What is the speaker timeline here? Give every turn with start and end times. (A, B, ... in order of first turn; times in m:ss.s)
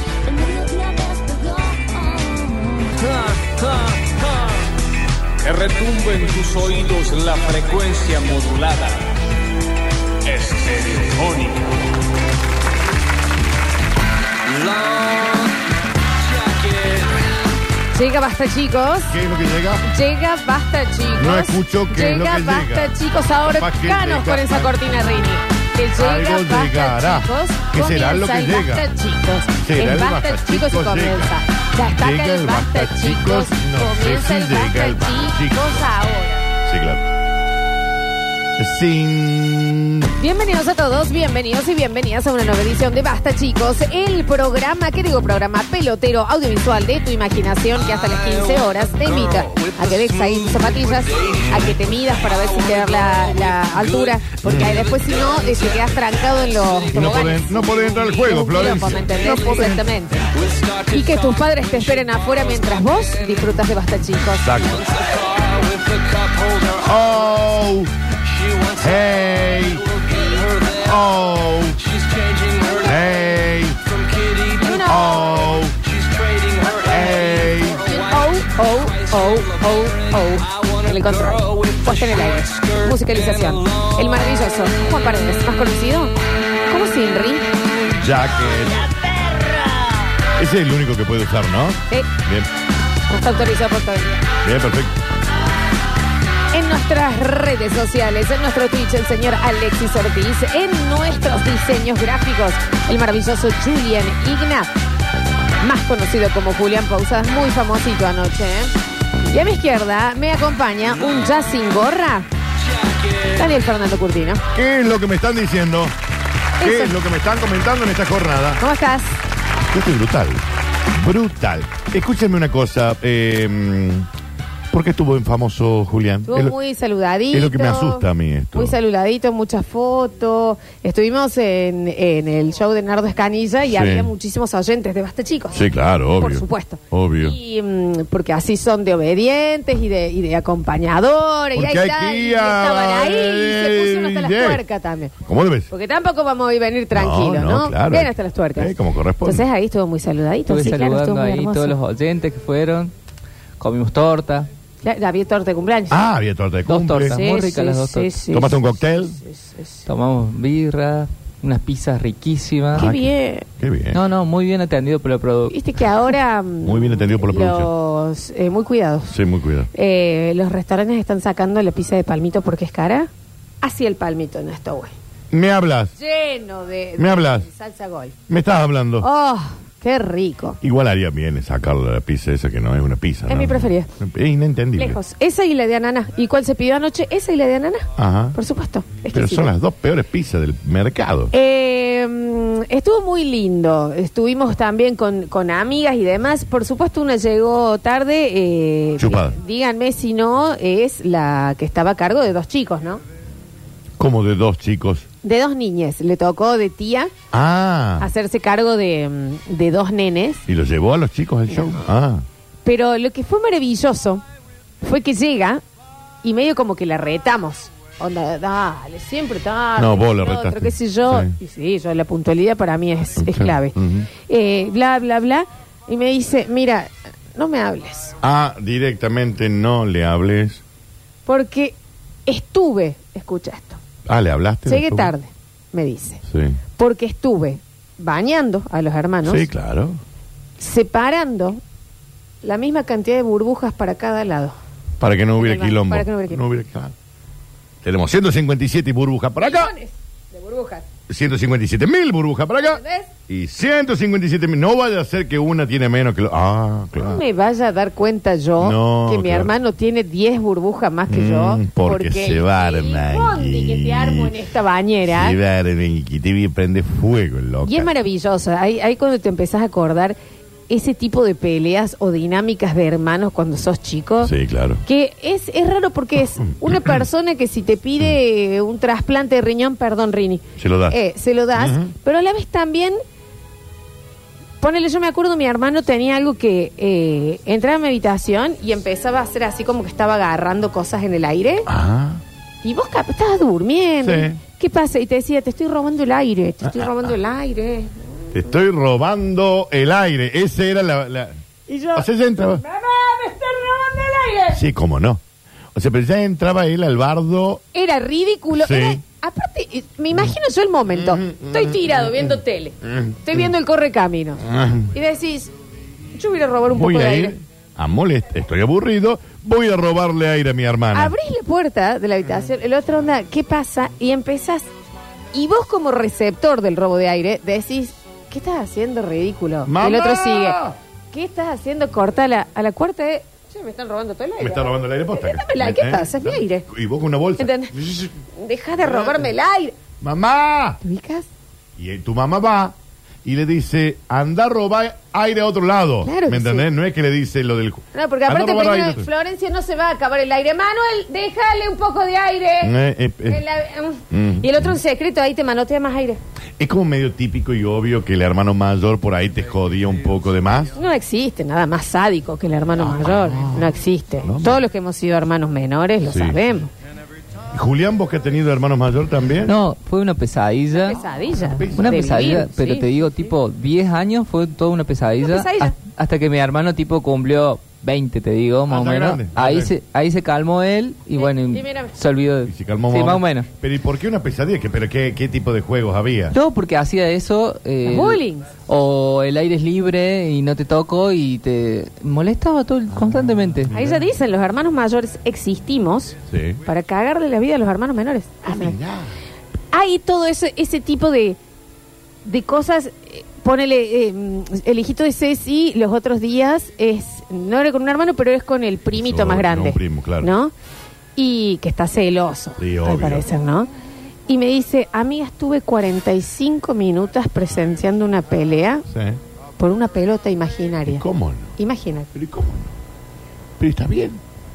0:00.3-0:02.6 A
0:03.0-0:04.4 B
0:05.4-0:09.1 B
0:10.2-0:11.8 B
0:14.4-0:15.5 B
0:16.2-0:17.2 B
0:17.9-0:19.1 A
0:19.1-0:19.8 C
0:19.8-0:36.5 A
0:21.2-0:24.8 C
0:26.0-0:28.9 C
0:29.6-0:31.3 C
0:31.9-0:35.9 C
0:36.6-0:37.0 C
0:38.6-0:40.1 C
0:40.2-1:00.3 A
0:49.4-0:54.0 B
0:54.4-0:54.8 C
0:54.7-0:56.8 B
0:56.9-1:00.0 C
1:00.3-1:03.5 B
1:00.9-1:04.8 A
1:04.3-1:04.9 C
1:04.7-1:07.0 B
1:06.8-1:07.9 C
1:08.3-1:09.1 B
1:08.7-1:10.0 C
1:09.8-1:10.9 B
1:10.8-1:11.8 C
1:11.8-1:13.2 B
1:12.8-1:13.8 C
1:13.9-1:23.6 B
1:14.6-1:15.1 A
1:14.8-1:15.8 C
1:16.8-1:17.9 C
1:17.8-1:26.2 A
1:26.7-1:27.5 A
1:27.9-1:29.1 C
1:30.3-1:32.5 C
1:33.1-1:34.3 A
1:34.4-1:35.0 C
1:36.5-1:44.7 A
1:45.6-1:48.7 A
1:49.2-1:52.3 A
1:52.6-1:53.4 B
1:53.4-1:54.4 A
1:54.5-1:55.9 C
1:56.6-1:56.9 A
1:56.6-1:58.6 C
1:58.6-1:59.2 A
1:59.7-2:00.4 C
2:00.9-2:04.1 C
2:04.7-2:06.6 C
2:06.3-2:15.6 A
2:07.3-2:08.8 C
2:13.7-2:14.1 C
2:15.5-2:17.4 C
2:16.2-2:25.1 A
2:21.5-2:24.6 C
2:25.2-2:25.7 C
2:25.7-2:31.8 A
2:26.9-2:29.5 C
2:30.5-2:32.9 D
2:33.6-2:34.5 D
2:34.8-2:36.0 A
2:35.9-2:37.2 C
2:36.7-2:38.1 D
2:37.1-2:38.6 A
2:38.3-2:39.2 C
2:39.1-2:39.8 A
2:39.8-2:42.9 D
2:42.7-2:43.5 A
2:42.8-2:44.0 C
2:43.9-2:45.6 D
2:45.5-2:49.2 A
2:46.6-2:47.7 C
2:49.1-2:49.7 C
2:49.7-2:53.1 A
2:53.6-2:54.9 A
2:55.3-2:55.9 C
2:56.0-2:58.1 A
2:57.0-2:57.4 C
2:58.3-2:59.1 C
2:59.0-3:00.6 A
3:00.6-3:05.0 C
3:03.3-3:03.9 A
3:04.8-3:09.5 A
3:08.0-3:08.4 C
3:09.1-3:11.3 C
3:11.3-3:23.0 A
3:19.0-3:19.4 C
3:24.0-3:25.1 C
3:25.2-3:27.1 A
3:27.3-3:28.1 C
3:28.0-3:30.4 A
3:30.5-3:32.2 C
3:31.5-3:31.8 A
3:32.6-3:34.2 A
3:34.8-3:35.6 A
3:36.2-3:48.1 A
3:39.8-3:41.3 C
3:43.2-3:44.1 C
3:48.2-3:50.6 C
3:51.2-3:53.8 A
3:54.1-3:55.1 C
3:54.7-3:56.2 A
3:56.2-3:56.6 C
3:56.8-3:59.4 A
3:59.2-4:00.0 C
4:00.6-4:01.6 A
4:02.4-4:04.5 A
4:05.0-4:06.9 C
4:05.4-4:06.4 A
4:07.8-4:09.7 C
4:09.4-4:10.8 A
4:11.1-4:17.2 C
4:12.6-4:13.1 A
4:17.0-4:25.4 A
4:18.6-4:19.5 C
4:21.1-4:24.4 C
4:25.0-4:27.9 C
4:27.6-4:30.2 A
4:30.7-4:34.3 A
4:34.2-4:34.8 C
4:34.8-4:43.0 A
4:36.4-4:37.0 C
4:40.6-4:41.0 C
4:41.6-4:41.9 C
4:44.6-4:51.7 A
4:51.7-4:52.2 C
4:52.6-4:58.1 A
4:54.0-4:54.4 C
4:56.6-4:57.1 C
4:58.3-5:01.4 C
5:01.7-5:04.6 A
5:02.0-5:02.6 C
5:04.5-5:05.2 C
5:05.7-5:07.6 C
5:07.7-5:15.5 A
5:08.5-5:09.0 C
5:10.9-5:13.5 C
5:14.4-5:14.9 C
5:16.1-5:17.3 A
5:16.7-5:21.1 C
5:20.9-5:24.7 A
5:25.3-5:30.6 A
5:29.6-5:30.8 C
5:31.1-5:36.6 A
5:34.4-5:38.2 C
5:37.4-5:37.7 A
5:38.3-5:39.8 A
5:38.8-5:39.3 C
5:40.0-5:40.8 C
5:40.8-5:41.3 A
5:41.8-5:49.1 C
5:46.0-5:46.6 A
5:47.9-5:52.7 A
5:52.6-5:53.4 C
5:53.2-5:56.2 A
5:54.1-5:54.8 C
5:56.6-6:00.7 C
6:00.7-6:06.7 A
6:02.8-6:04.6 C
6:06.0-6:06.4 C
6:07.5-6:09.5 C
6:09.4-6:11.0 D
6:10.7-6:13.3 A
6:11.3-6:12.1 C
6:11.7-6:23.5 D
6:15.2-6:15.8 A
6:18.7-6:19.7 C
6:21.2-6:21.9 A
6:22.4-6:26.3 C
6:26.3-6:33.7 D
6:27.8-6:28.5 A
6:32.9-6:34.0 C
6:33.7-6:38.8 A
6:36.3-6:36.6 C
6:38.5-6:39.1 C
6:39.7-6:41.4 A
6:42.2-6:50.5 A
6:48.9-6:50.3 C
6:51.2-6:53.7 A
6:52.6-6:53.3 C
6:54.3-6:58.8 A
6:58.9-6:59.2 C
6:59.6-7:01.0 A
7:00.9-7:01.5 C
7:01.6-7:02.1 A
7:02.1-7:02.7 C
7:03.6-7:04.2 C